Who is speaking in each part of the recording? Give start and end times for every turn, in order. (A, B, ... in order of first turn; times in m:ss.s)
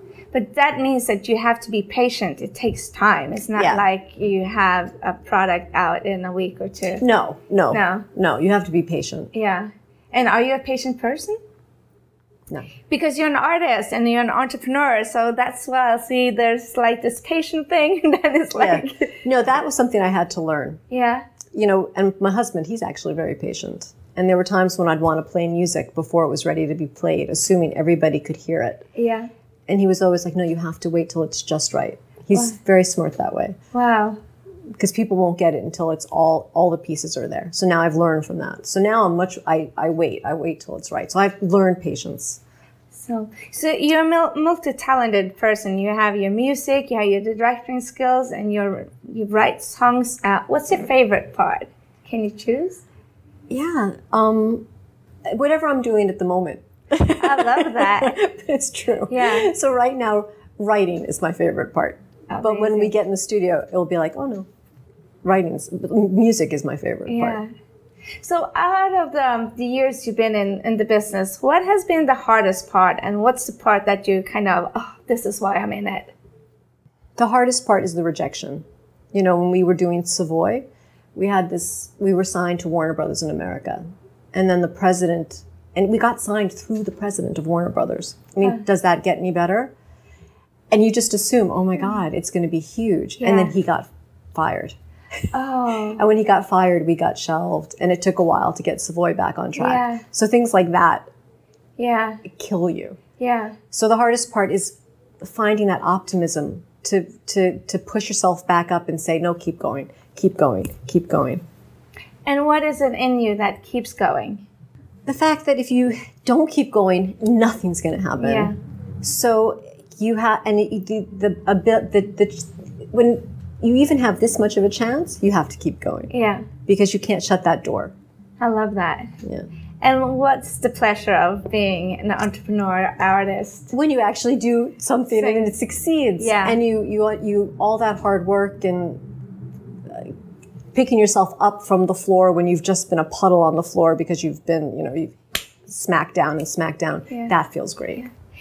0:00.3-0:07.0 A
0:03.6-0:03.8 B
0:07.0-0:09.3 B
0:07.7-0:08.0 A
0:09.3-0:11.4 A
0:12.9-0:19.2 A
0:18.6-0:20.8 B
0:20.9-0:21.3 A
0:21.5-0:28.9 B
0:29.0-0:29.3 A
0:29.7-0:33.6 B
0:33.7-0:34.2 A
0:34.8-0:42.4 B
0:42.9-0:52.8 A
0:53.5-0:54.6 B
0:55.3-1:04.5 B
0:57.1-0:58.2 A
0:59.1-0:59.5 A
1:02.3-1:02.9 A
1:05.2-1:07.4 B
1:07.1-1:07.5 A
1:08.2-1:16.1 A
1:17.2-1:29.7 B
1:30.7-1:34.8 B
1:33.2-1:33.5 A
1:35.3-1:36.0 A
1:36.0-1:41.1 B
1:39.6-1:40.0 A
1:41.8-1:42.2 A
1:42.2-1:43.0 B
1:43.2-1:43.6 A
1:43.7-1:51.4 B
1:52.3-1:54.4 A
1:55.1-2:06.1 B
1:58.2-1:58.6 A
2:06.1-2:06.5 A
2:06.6-2:07.9 B
2:08.4-2:09.1 A
2:09.8-2:13.7 A
2:13.7-2:19.0 B
2:15.1-2:15.5 A
2:16.2-2:16.6 A
2:19.9-2:20.1 B
2:20.7-2:28.1 B